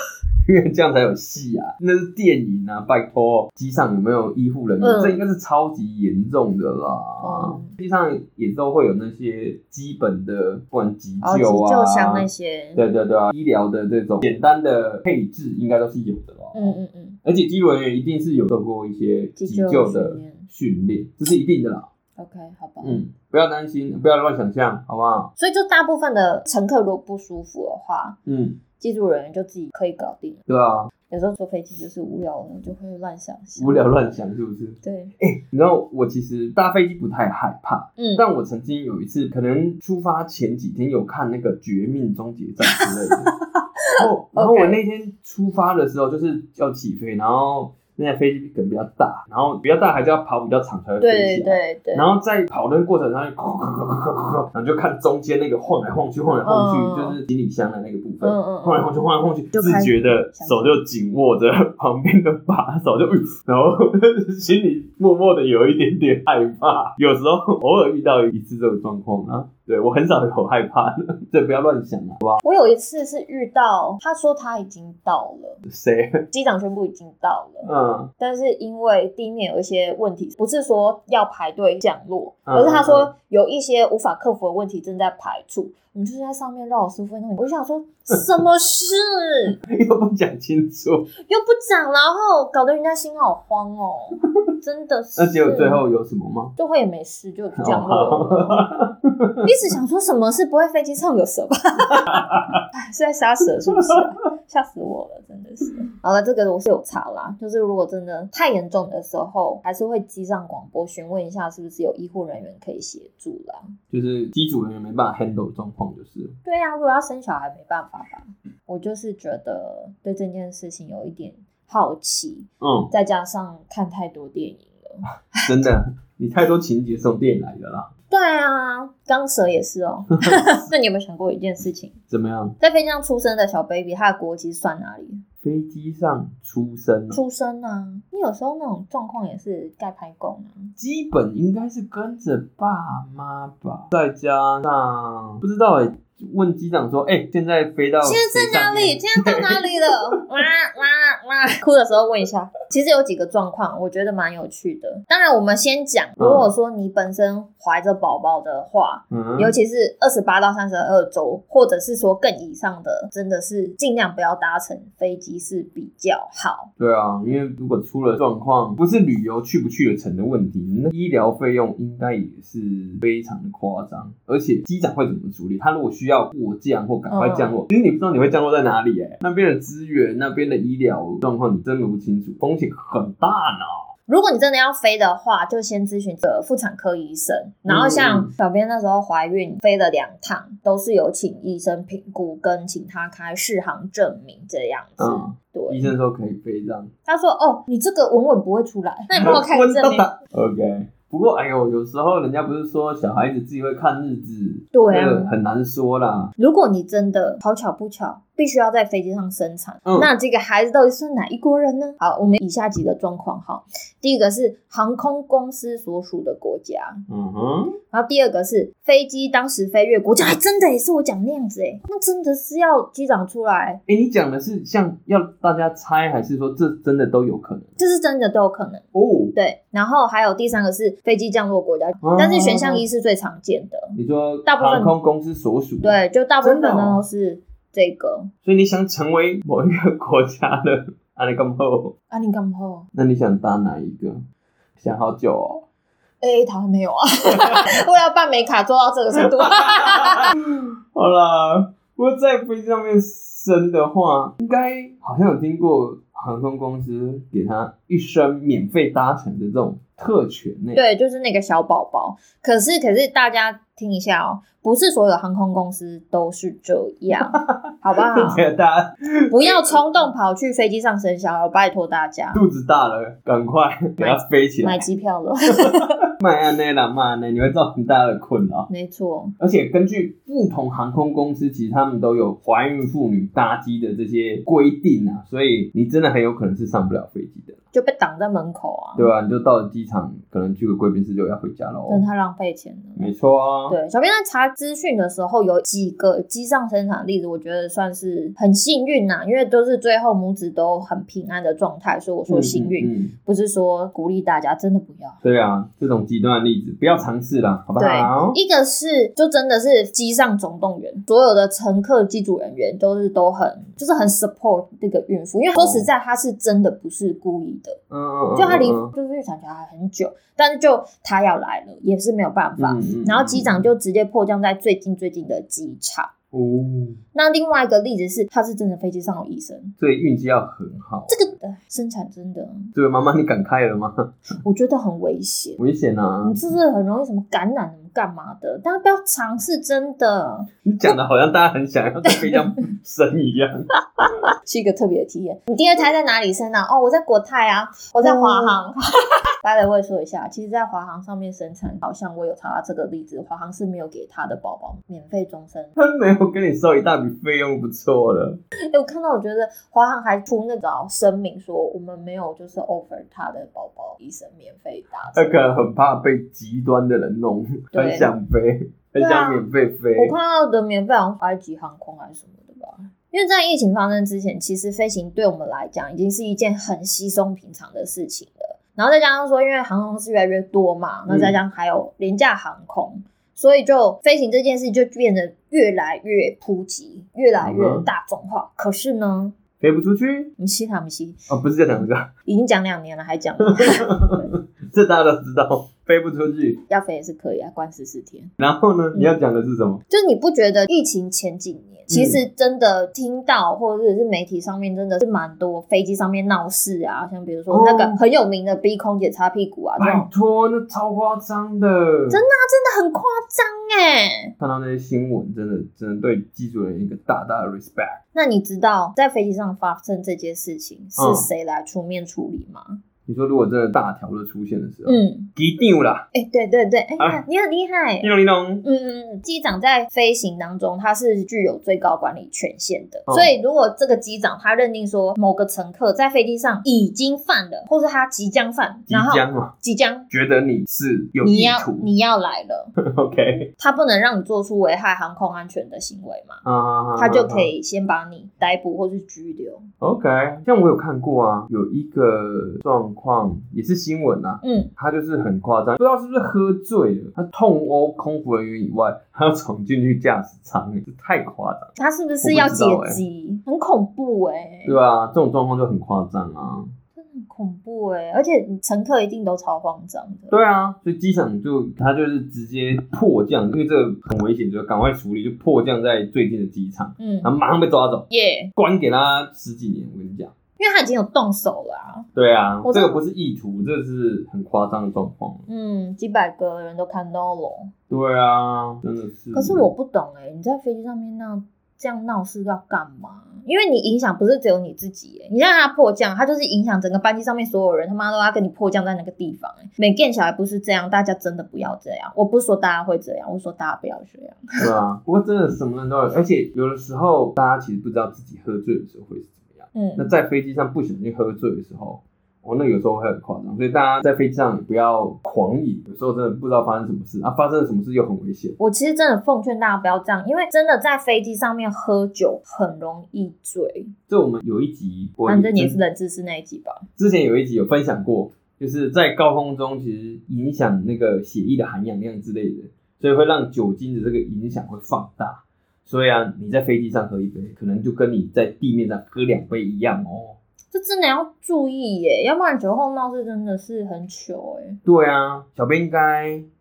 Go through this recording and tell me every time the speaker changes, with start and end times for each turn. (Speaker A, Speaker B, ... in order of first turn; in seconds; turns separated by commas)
Speaker A: 0.5-21.9, Speaker B: 4.8-5.2, Speaker B: 7.2-7.7, Speaker B: 11.2-12.8, Speaker B: 16.5-17.2, Speaker B: 19.4-20.5, Speaker B: 22.2-23.0, Speaker A: 22.8-25.3, Speaker B: 25.4-28.2, Speaker A: 28.3-28.6, Speaker B: 28.8-30.4, Speaker A: 30.5-30.9, Speaker B: 31.1-33.9, Speaker A: 33.6-43.4, Speaker B: 34.8-35.1, Speaker B: 38.0-38.2, Speaker B: 42.7-44.8, Speaker A: 43.9-72.4, Speaker B: 51.0-52.1, Speaker B: 56.5-57.2, Speaker B: 58.2-58.8, Speaker B: 59.5-60.8, Speaker B: 72.4-75.6, Speaker A: 75.7-76.2, Speaker B: 76.3-77.7, Speaker A: 77.6-78.1, Speaker B: 78.2-89.6, Speaker A: 82.5-83.1, Speaker A: 89.6-91.1, Speaker B: 91.2-95.8, Speaker A: 95.2-96.5, Speaker B: 96.6-98.7, Speaker A: 97.6-99.5, Speaker B: 99.4-113.7, Speaker A: 102.0-102.6, Speaker A: 103.8-104.0, Speaker A: 113.9-116.4, Speaker B: 116.5-125.5, Speaker A: 122.6-122.9, Speaker A: 125.4-127.9, Speaker B: 128.1-132.0, Speaker A: 130.1-130.7, Speaker A: 132.1-132.6, Speaker B: 132.6-135.2, Speaker A: 135.4-137.2, Speaker B: 137.1-140.7, Speaker A: 140.8-150.2, Speaker B: 148.0-166.7, Speaker A: 156.2-156.5, Speaker A: 159.1-159.5, Speaker A: 166.8-183.9, Speaker B: 177.1-177.6, Speaker B: 184.1-195.9, Speaker A: 187.7-188.3, Speaker A: 195.0-196.9, Speaker B: 197.1-200.1, Speaker A: 199.1-206.3, Speaker B: 204.7-205.3, Speaker B: 206.4-217.0, Speaker A: 217.1-217.8, Speaker B: 217.9-223.8, Speaker A: 223.9-227.7, Speaker B: 227.8-234.9, Speaker A: 228.9-229.4, Speaker A: 232.0-232.8, Speaker A: 233.9-237.0, Speaker B: 235.8-238.3, Speaker A: 238.4-241.9, Speaker B: 242.1-242.9, Speaker A: 242.9-244.2, Speaker A: 244.8-245.6, Speaker B: 246.2-250.3, Speaker A: 247.3-247.6, Speaker A: 249.4-260.8, Speaker B: 260.7-268.5, Speaker A: 267.1-269.8, Speaker B: 269.3-272.4, Speaker A: 272.3-274.8, Speaker B: 274.0-276.0, Speaker A: 275.6-278.7, Speaker B: 278.7-279.4, Speaker A: 279.4-287.6, Speaker B: 287.7-289.1, Speaker A: 289.0-292.0, Speaker B: 291.9-293.1, Speaker A: 293.0-293.8, Speaker B: 293.7-305.2, Speaker A: 302.3-303.1, Speaker A: 305.2-308.4, Speaker B: 307.8-317.8, Speaker A: 315.6-315.9, Speaker A: 317.9-318.9, Speaker B: 318.4-326.1, Speaker A: 322.6-323.7, Speaker A: 326.3-327.0, Speaker B: 327.1-329.7, Speaker A: 329.8-331.2, Speaker B: 331.1-332.7, Speaker A: 332.7-334.1, Speaker B: 334.4-335.6, Speaker A: 335.6-336.4, Speaker B: 336.2-340.9, Speaker A: 340.6-344.2, Speaker B: 342.1-342.4, Speaker B: 344.4-348.8, Speaker A: 348.0-348.5, Speaker B: 349.3-355.8, Speaker A: 355.8-358.4, Speaker B: 358.7-365.4, Speaker A: 365.1-370.1, Speaker B: 367.7-368.1, Speaker B: 369.0-369.4, Speaker B: 370.0-389.4, Speaker A: 381.1-381.4, Speaker A: 387.4-387.9, Speaker A: 389.6-390.3, Speaker B: 390.4-391.2, Speaker A: 391.3-392.1, Speaker B: 392.3-394.3, Speaker A: 393.4-396.6, Speaker B: 396.7-398.3, Speaker A: 398.4-399.8, Speaker B: 399.9-410.1, Speaker A: 401.9-402.2, Speaker A: 407.5-408.0, Speaker A: 409.8-412.2, Speaker B: 412.1-414.3, Speaker A: 414.4-418.0, Speaker B: 418.1-422.8, Speaker A: 421.0-421.3, Speaker A: 423.1-426.1, Speaker B: 424.9-425.3, Speaker B: 426.1-428.1, Speaker A: 428.0-428.6, Speaker B: 428.6-440.1, Speaker A: 438.9-439.5, Speaker A: 440.1-441.9, Speaker B: 441.2-442.7, Speaker A: 442.8-443.5, Speaker B: 443.6-446.4, Speaker A: 446.4-447.5, Speaker B: 447.0-449.6, Speaker A: 449.8-463.0, Speaker B: 454.4-454.7, Speaker B: 461.8-464.8, Speaker A: 464.6-466.8, Speaker B: 467.0-470.3, Speaker A: 470.3-480.3, Speaker B: 477.0-477.3, Speaker B: 478.1-478.5, Speaker B: 480.6-482.1, Speaker A: 482.1-485.5, Speaker B: 482.6-483.0, Speaker B: 485.5-487.7, Speaker A: 487.9-489.7, Speaker B: 489.3-504.4, Speaker A: 504.6-518.6, Speaker B: 509.8-510.1, Speaker B: 518.6-523.9, Speaker A: 524.1-525.8, Speaker B: 525.3-526.9, Speaker A: 527.0-540.4, Speaker B: 540.7-544.8, Speaker A: 544.9-546.5